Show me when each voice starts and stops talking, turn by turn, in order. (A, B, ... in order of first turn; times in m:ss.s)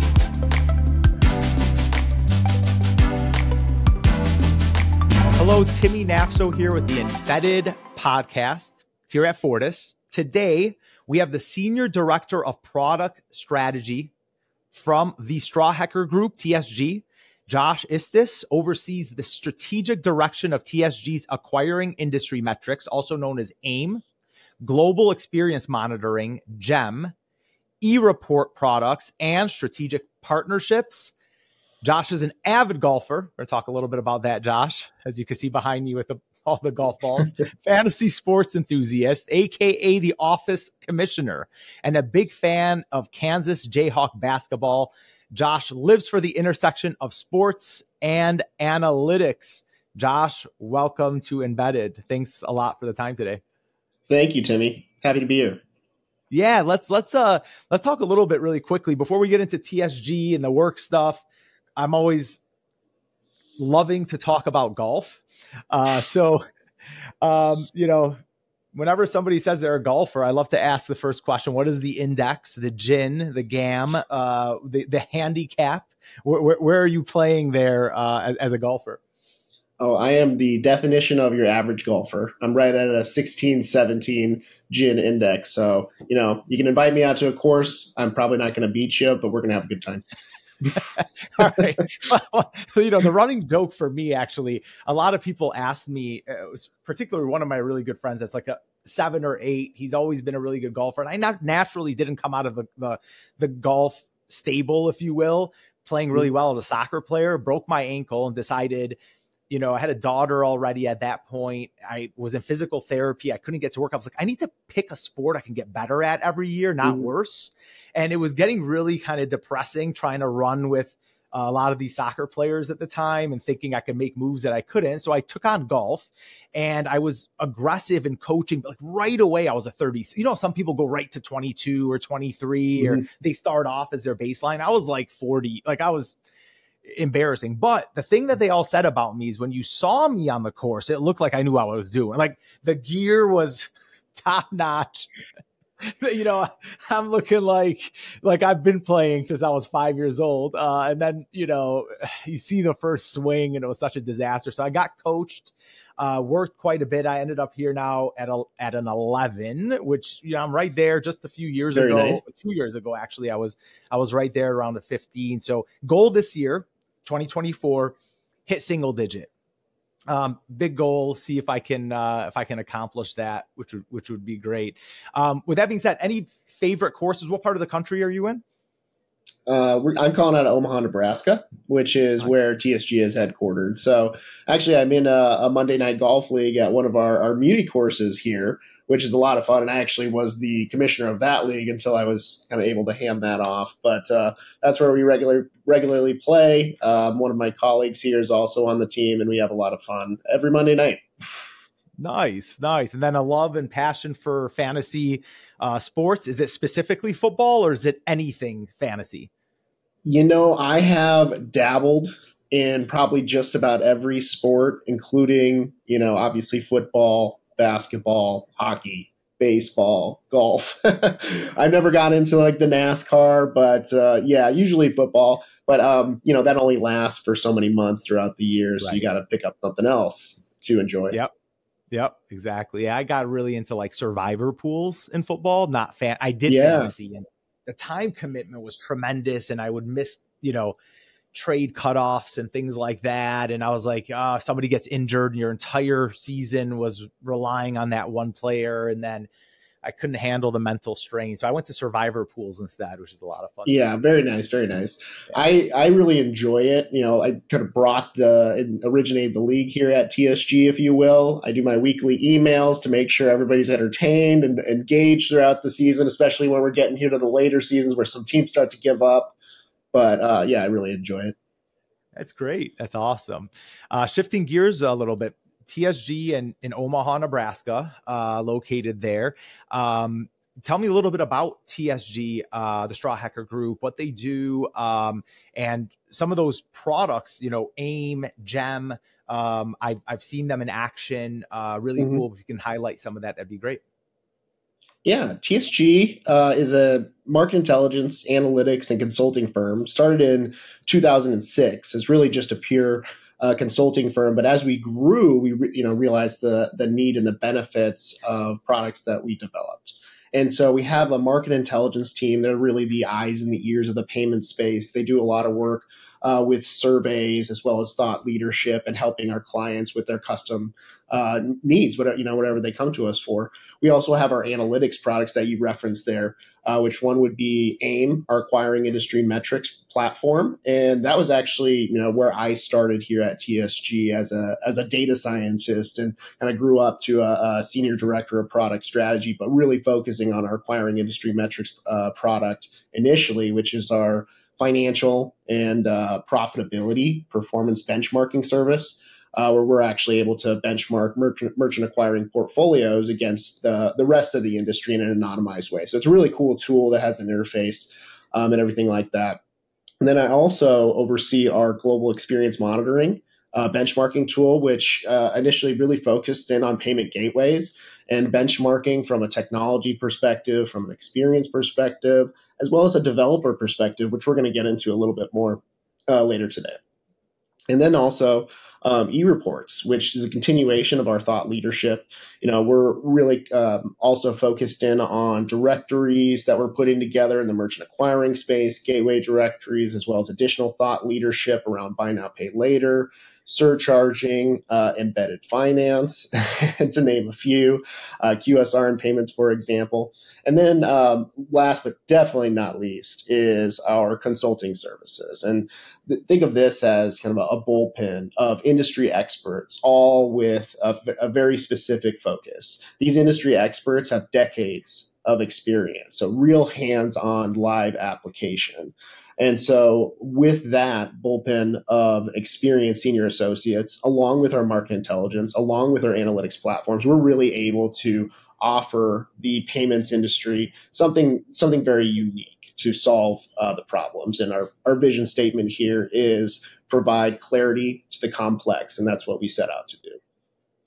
0:05.3-0:14.1 A
0:14.7-0:24.0 A
0:24.6-0:27.1 A
0:27.8-0:31.1 A
0:31.8-0:53.4 A
0:54.1-0:55.6 B
0:56.3-1:01.2 A
1:01.8-1:02.4 A
1:03.6-1:06.4 A
1:07.2-1:08.2 A
1:08.7-1:19.0 A
1:19.8-1:30.0 B
1:31.0-1:49.0 A
1:49.5-2:16.2 A
2:16.8-2:25.1 A
2:25.8-2:47.9 A
2:41.7-2:42.2 B
2:48.5-2:49.3 A
2:50.1-2:58.4 A
2:59.5-3:21.0 B
3:22.0-3:29.3 A
3:30.0-3:51.2 B
3:51.9-4:00.8 A
3:56.5-3:56.9 B
4:01.3-4:09.3 A
4:09.8-4:13.8 A
4:13.6-4:29.3 B
4:29.9-4:31.3 B
4:32.1-4:53.8 A
4:55.0-5:59.4 B
6:00.0-6:16.8 B
6:17.7-7:20.2 B